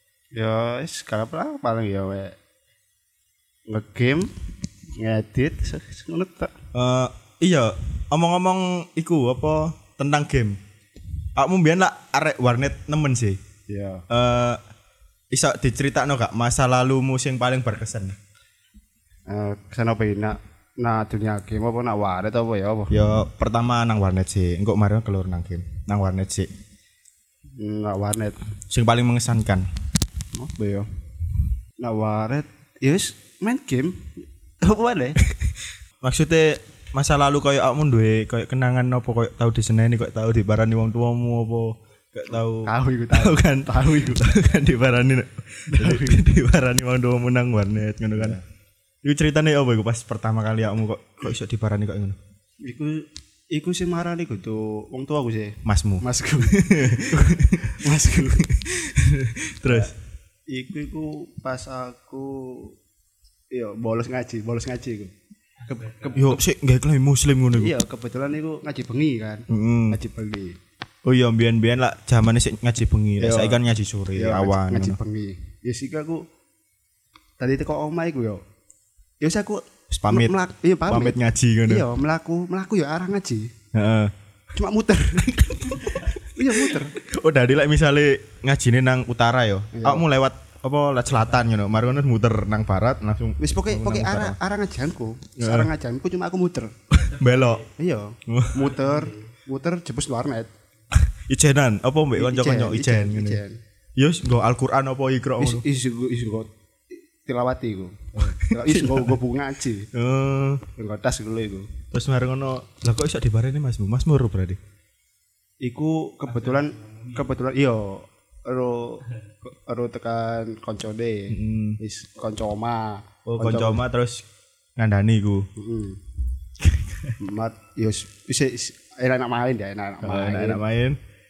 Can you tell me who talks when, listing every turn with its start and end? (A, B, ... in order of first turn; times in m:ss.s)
0:00.3-0:02.3 A
0:03.7-0:04.3 A
0:05.0-0:06.5 A
0:06.7-0:10.6 B
0:11.4-0:13.4 B
0:13.7-0:14.0 A
0:14.1-0:14.6 B
0:15.3-0:18.2 B
0:19.3-0:22.9 A
0:22.9-0:26.5 B
0:27.6-0:28.4 A
0:28.7-0:29.7 B
0:30.3-0:30.9 A
0:31.8-0:35.2 A
0:35.2-0:35.5 B
0:36.0-0:48.4 B
0:42.5-0:44.3 A
0:45.7-0:46.2 A
0:49.0-0:52.2 B
0:52.6-0:58.5 A
0:55.6-0:59.9 B
0:59.6-0:59.9 A
1:00.5-1:02.8 A
1:03.5-1:06.4 A
1:06.1-1:07.7 B
1:07.6-1:10.6 A
1:09.5-1:10.0 B
1:11.0-1:15.0 B
1:13.2-1:13.6 A
1:14.1-1:16.2 A
1:17.4-1:18.4 A
1:19.2-1:23.5 A
1:19.9-1:20.3 B
1:20.9-1:21.8 B
1:23.7-1:24.1 B
1:24.5-1:26.9 A
1:25.8-1:34.4 B
1:29.7-1:30.0 A
1:33.4-1:36.7 A
1:35.4-1:35.7 B
1:36.9-1:37.6 B
1:37.7-1:40.5 A
1:38.3-1:38.7 B
1:40.9-1:43.4 B
1:42.1-1:43.6 A
1:44.0-1:45.6 B
1:45.4-1:49.9 A
1:48.2-1:49.2 B
1:49.9-1:50.6 B
1:50.8-1:51.7 A
1:51.9-1:54.6 B
1:55.6-2:03.8 A
2:01.3-2:01.8 B
2:03.2-2:04.2 B
2:04.8-2:05.5 B
2:05.6-2:06.0 A
2:06.6-2:07.2 B
2:07.2-2:10.6 A
2:10.0-2:11.0 B